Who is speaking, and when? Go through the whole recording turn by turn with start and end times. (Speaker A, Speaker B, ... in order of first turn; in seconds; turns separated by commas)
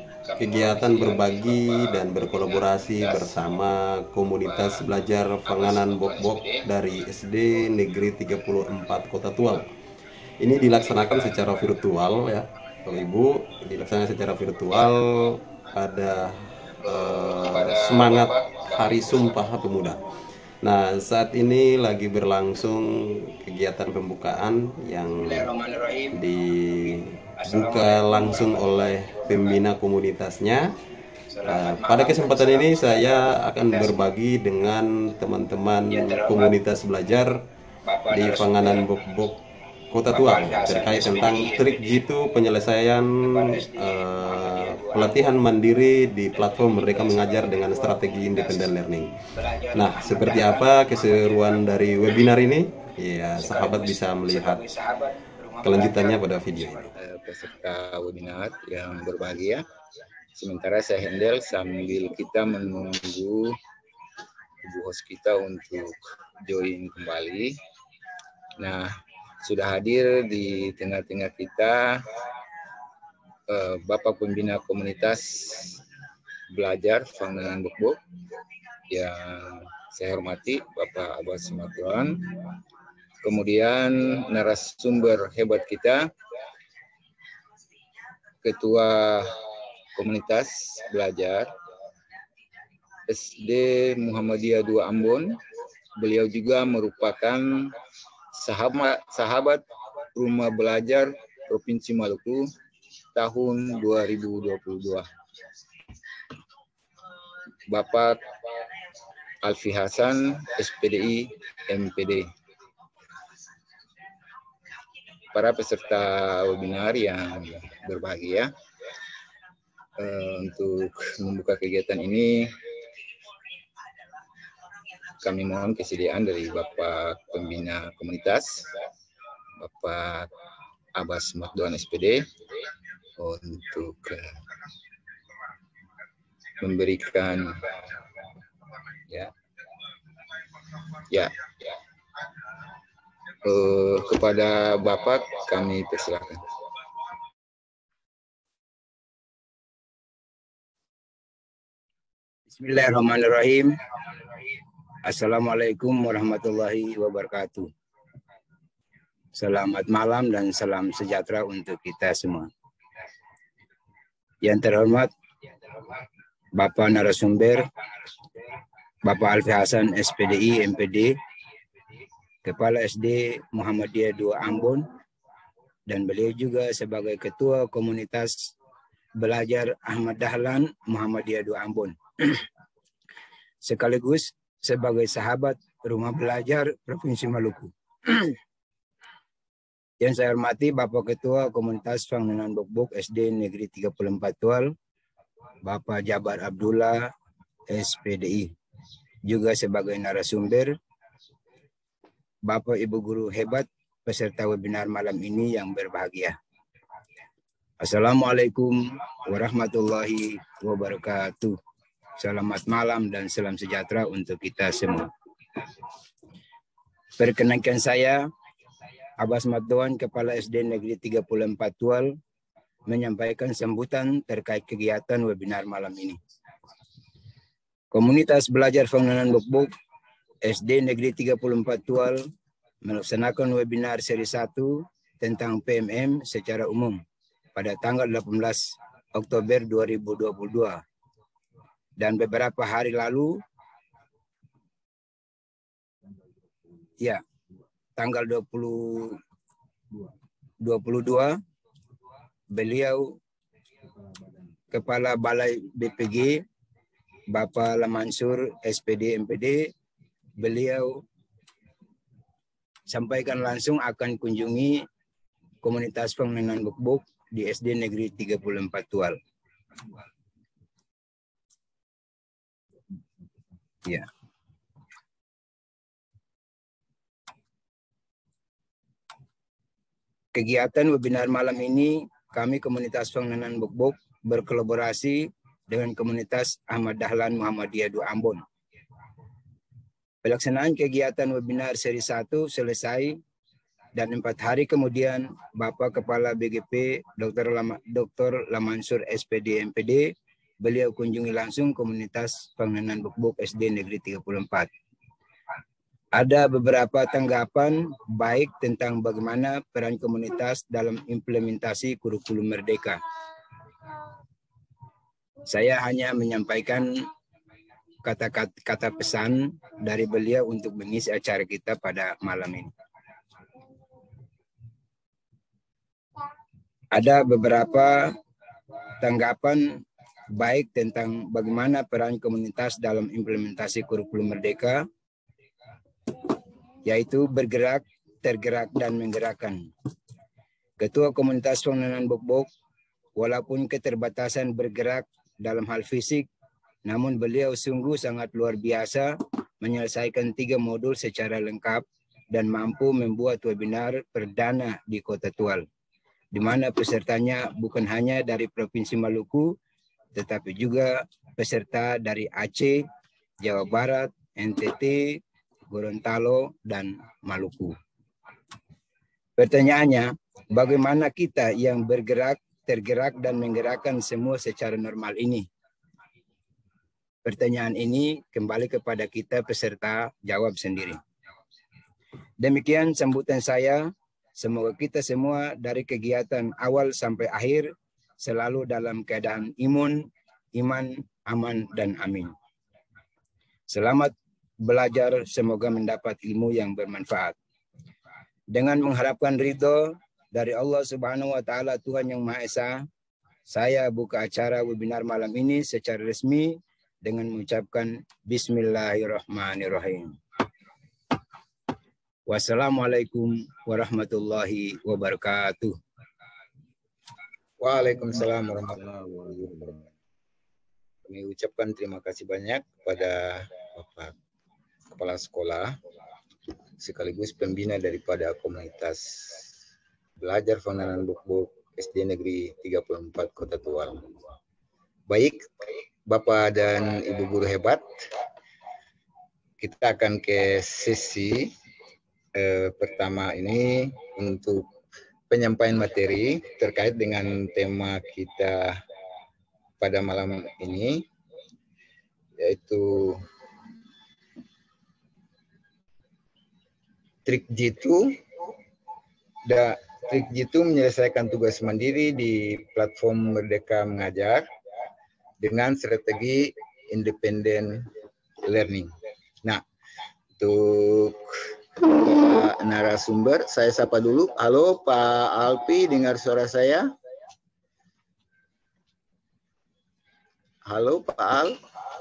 Speaker A: 0.2-3.4, Speaker B: 0.4-9.7, Speaker A: 4.4-4.9, Speaker A: 5.5-6.7, Speaker B: 10.4-20.0, Speaker A: 11.1-11.7, Speaker A: 17.2-18.8, Speaker C: 17.6-18.2, Speaker B: 20.6-25.5, Speaker C: 25.2-26.2, Speaker B: 26.1-30.7, Speaker C: 27.4-29.6, Speaker C: 31.3-34.0, Speaker B: 31.5-37.4, Speaker C: 35.9-36.6, Speaker C: 37.9-38.8, Speaker B: 38.1-39.4, Speaker B: 39.9-49.2, Speaker C: 40.1-41.9, Speaker C: 43.2-45.3, Speaker C: 46.5-48.7, Speaker C: 49.4-51.6, Speaker B: 49.7-54.6, Speaker C: 53.4-56.9, Speaker B: 55.6-56.9, Speaker A: 57.0-59.6, Speaker A: 60.4-63.6, Speaker A: 64.6-67.6, Speaker A: 68.6-72.2, Speaker A: 73.5-75.8, Speaker A: 76.5-78.0, Speaker A: 78.9-82.5, Speaker A: 83.2-86.1, Speaker A: 88.4-89.3, Speaker A: 90.0-91.5, Speaker A: 93.1-95.4, Speaker A: 96.0-97.8, Speaker A: 98.3-102.5, Speaker A: 103.1-105.1, Speaker A: 107.7-108.4, Speaker A: 109.4-112.3, Speaker A: 115.3-118.5, Speaker A: 120.0-122.9, Speaker A: 125.0-128.8, Speaker A: 129.6-130.3, Speaker A: 130.9-134.7, Speaker A: 136.6-138.1, Speaker A: 139.1-139.3, Speaker A: 140.5-141.8, Speaker A: 143.4-146.6, Speaker C: 152.5-153.8, Speaker C: 155.0-157.7, Speaker C: 159.3-162.5, Speaker C: 164.4-165.1, Speaker C: 166.6-167.7, Speaker C: 169.0-171.2, Speaker C: 172.4-174.9, Speaker C: 175.9-178.6, Speaker C: 179.2-182.5, Speaker C: 183.6-188.4, Speaker C: 190.0-194.7, Speaker C: 195.6-197.1, Speaker C: 197.7-198.5, Speaker C: 199.2-200.8, Speaker C: 202.4-206.4, Speaker C: 207.8-211.6, Speaker C: 212.2-215.1, Speaker C: 217.2-218.3, Speaker C: 219.2-222.2, Speaker C: 222.9-226.2, Speaker C: 227.9-229.7, Speaker C: 230.4-232.2, Speaker C: 232.8-237.0, Speaker C: 237.6-240.8, Speaker C: 242.0-243.4, Speaker C: 248.0-249.2, Speaker C: 250.6-251.4, Speaker C: 252.5-253.2, Speaker C: 254.7-256.4, Speaker C: 257.3-259.7, Speaker C: 260.4-261.0, Speaker C: 262.9-264.9, Speaker C: 265.6-269.2, Speaker C: 280.3-288.4, Speaker C: 290.2-293.2, Speaker C: 293.9-304.7, Speaker C: 306.1-313.0, Speaker C: 315.5-317.1, Speaker C: 318.0-322.7, Speaker C: 326.9-328.2, Speaker C: 329.0-329.9, Speaker C: 330.4-334.9, Speaker C: 336.9-339.7, Speaker C: 340.8-342.5, Speaker C: 343.2-346.3, Speaker C: 346.9-355.7, Speaker C: 356.3-359.6, Speaker C: 360.1-362.9, Speaker C: 363.4-367.8, Speaker C: 369.4-375.5, Speaker C: 377.2-381.0, Speaker C: 382.4-392.3, Speaker C: 393.7-397.4, Speaker C: 398.5-402.9, Speaker C: 403.5-410.2, Speaker C: 412.3-415.8, Speaker A: 417.6-418.8, Speaker B: 417.8-419.9, Speaker A: 419.4-419.7, Speaker A: 421.1-424.1, Speaker A: 424.9-425.8, Speaker A: 426.8-429.5, Speaker A: 430.2-434.1, Speaker A: 435.1-438.1, Speaker A: 439.6-441.5, Speaker A: 442.4-444.7, Speaker A: 445.3-448.8, Speaker A: 449.8-451.1, Speaker A: 452.4-453.2, Speaker A: 457.3-458.2, Speaker A: 459.5-464.4, Speaker A: 465.4-467.9, Speaker A: 468.5-468.9, Speaker A: 470.4-476.9, Speaker A: 480.7-481.6